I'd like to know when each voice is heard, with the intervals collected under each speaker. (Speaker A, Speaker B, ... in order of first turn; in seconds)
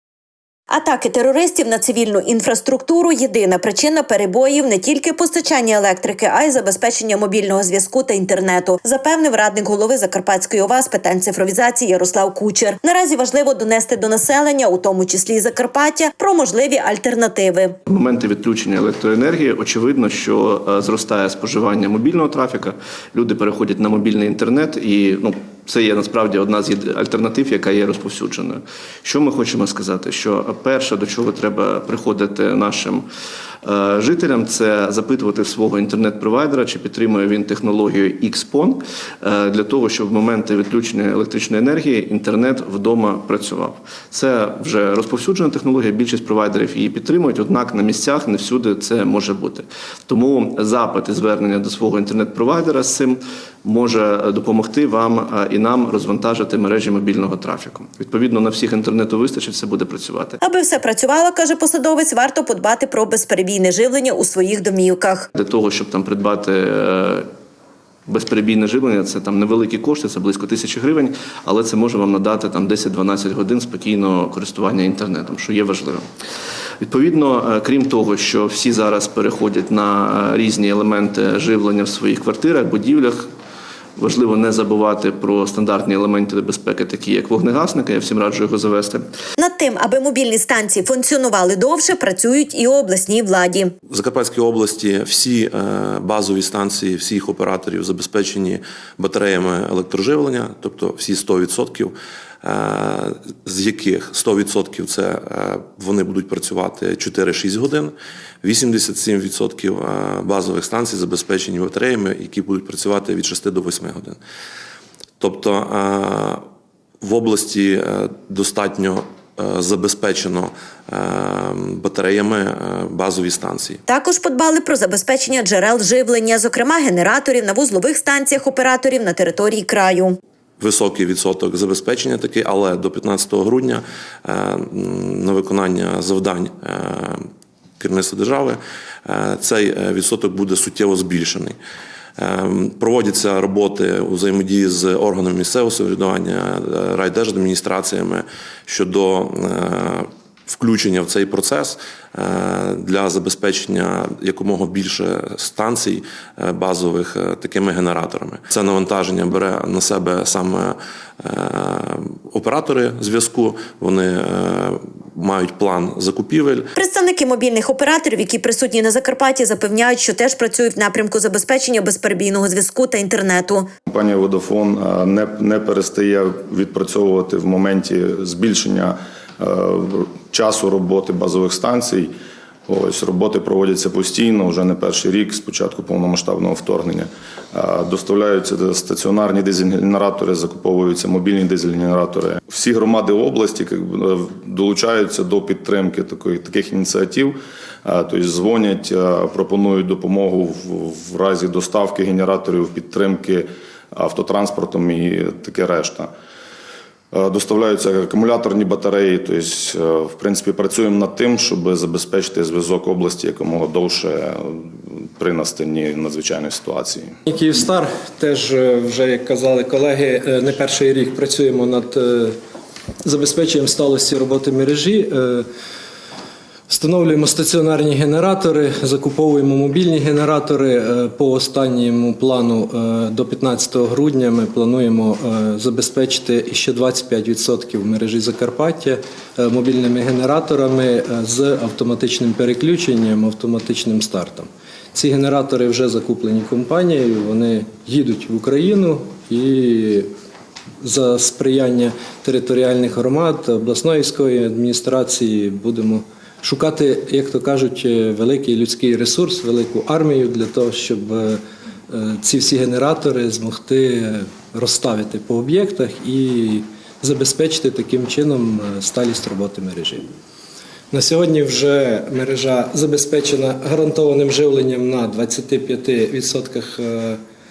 Speaker A: 0.7-17.8, 60.4-65.2, 89.4-93.7, 123.9-130.2, 166.8-173.7
Speaker B: 17.9-33.0, 33.6-60.4, 65.3-67.3, 68.1-76.1, 76.8-83.3, 84.0-89.1
Speaker C: 93.9-114.2, 115.2-116.5, 117.0-123.8, 130.6-137.3, 137.8-141.6, 142.2-166.7
Speaker D: 173.9-182.1, 182.7-206.1, 207.1-217.1
Speaker E: 217.2-222.4, 223.0-225.5, 226.7-250.1, 250.8-270.1, 270.9-277.2